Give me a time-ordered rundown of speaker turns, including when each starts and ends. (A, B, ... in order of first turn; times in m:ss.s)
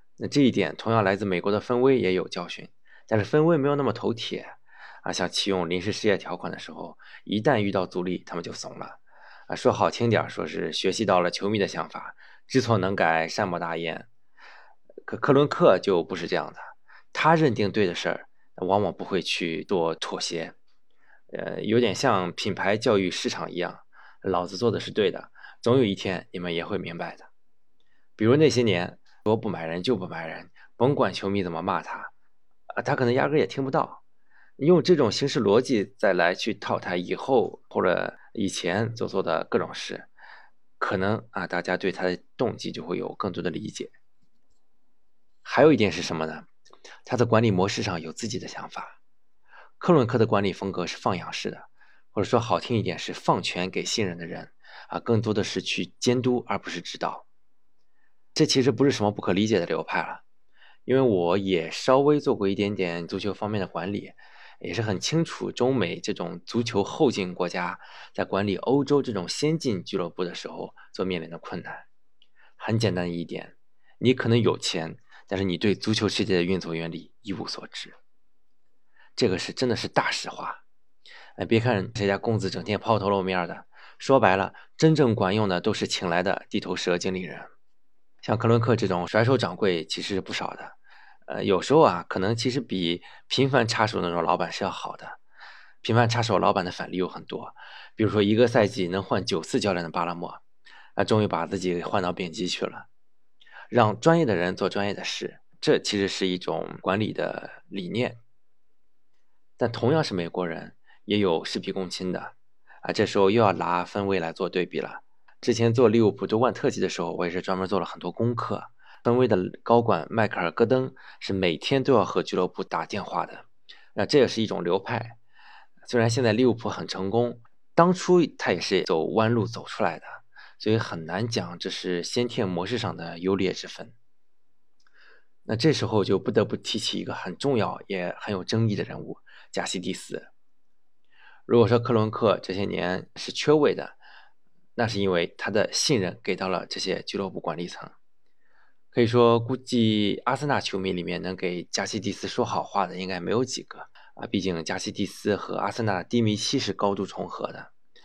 0:00.2-0:14.1 A
0:15.1-0:20.6 A
0:21.3-0:27.3 A
0:28.2-0:32.1 A
0:32.7-0:34.0 A
0:34.6-0:40.1 A
0:40.8-0:43.9 A
0:45.4-0:46.5 A
0:47.1-0:49.0 A
0:49.8-0:57.2 A
0:58.4-1:00.2 A
1:00.9-1:11.9 A
1:12.6-1:18.0 A
1:19.2-1:20.6 A
1:21.4-1:27.5 A
1:28.2-1:35.2 A
1:35.8-1:40.4 A
1:41.0-1:42.9 A
1:43.7-1:48.2 A
1:49.6-2:05.2 A
2:05.9-2:14.0 A
2:15.5-2:20.3 A
2:21.5-2:24.0 A
2:24.8-2:27.9 A
2:28.9-2:37.7 A